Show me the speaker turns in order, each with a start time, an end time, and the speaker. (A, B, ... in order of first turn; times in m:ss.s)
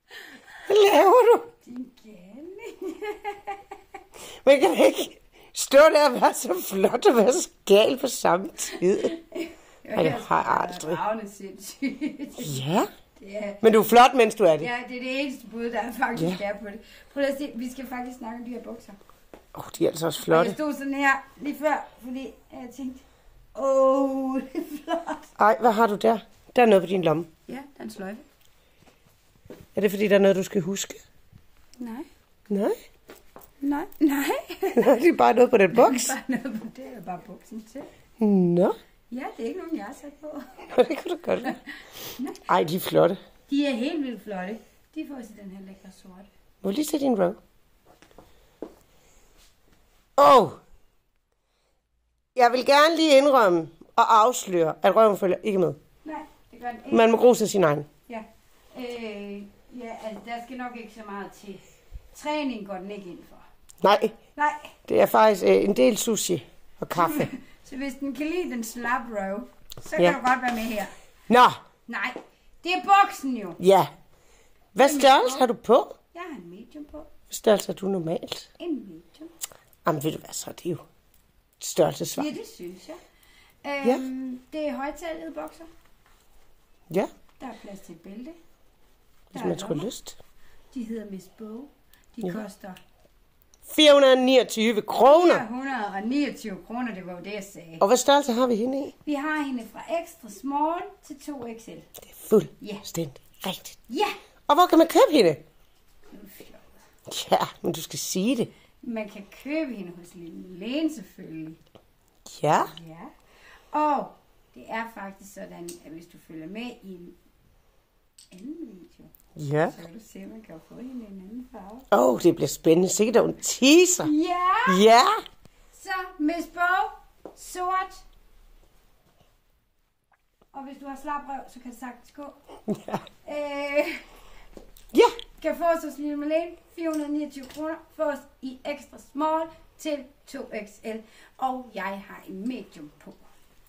0:00.7-0:01.5 A
0:01.6-0:03.6 B
0:04.4-0:09.1 A
0:08.8-0:12.6 B
0:10.0-0:11.0 A
0:12.4-0:12.9 A
0:13.2-0:13.6 B
0:13.6-0:14.7 A
0:14.6-0:19.0 B
0:19.5-0:20.6 A
0:20.3-0:23.0 B
0:23.6-0:25.3 B
0:25.4-0:27.3 A
0:27.5-0:28.3 B
0:29.8-0:31.0 A
0:31.8-0:32.1 B
0:32.5-0:32.8 A
0:33.6-0:35.0 B
0:34.7-0:36.1 A
0:35.7-0:37.9 B
0:38.2-0:38.8 A
0:39.1-0:40.7 B
0:40.7-0:41.6 A
0:41.4-0:42.5 B
0:42.5-0:43.2 A
0:43.5-0:46.3 B
0:46.6-0:47.4 A
0:50.2-0:50.6 A
0:52.4-0:55.8 A
0:56.0-0:57.2 B
0:56.9-0:57.9 A
0:58.1-1:03.4 B
1:03.8-1:04.2 A
1:04.4-1:04.8 B
1:04.9-1:07.3 A
1:07.0-1:10.9 B
1:11.3-1:11.6 A
1:11.9-1:13.6 B
1:13.6-1:13.9 A
1:14.7-1:16.0 A
1:14.8-1:15.5 B
1:16.1-1:17.1 B
1:17.3-1:18.5 A
1:18.6-1:19.3 B
1:19.8-1:20.8 A
1:21.6-1:22.3 A
1:22.1-1:23.0 B
1:23.6-1:25.7 B
1:27.4-1:28.4 B
1:29.3-1:30.2 A
1:29.3-1:29.9 B
1:30.7-1:32.8 B
1:33.7-1:35.4 A
1:35.0-1:37.8 B
1:37.8-1:38.9 A
1:39.0-1:41.9 B
1:42.1-1:43.8 A
1:42.6-1:42.9 B
1:43.9-1:44.2 B
1:44.5-1:45.4 A
1:46.1-1:46.8 B
1:47.1-1:48.5 A
1:48.8-1:51.6 B
1:52.3-1:52.7 A
1:52.6-1:53.1 B
1:53.7-1:57.2 B
1:58.3-2:01.9 B
1:59.4-1:59.8 A
2:01.9-2:04.1 A
2:04.0-2:04.8 B
2:04.7-2:05.2 A
2:05.7-2:08.0 B
2:10.5-2:12.4 B
2:12.7-2:13.0 A
2:13.2-2:14.0 B
2:15.4-2:23.2 B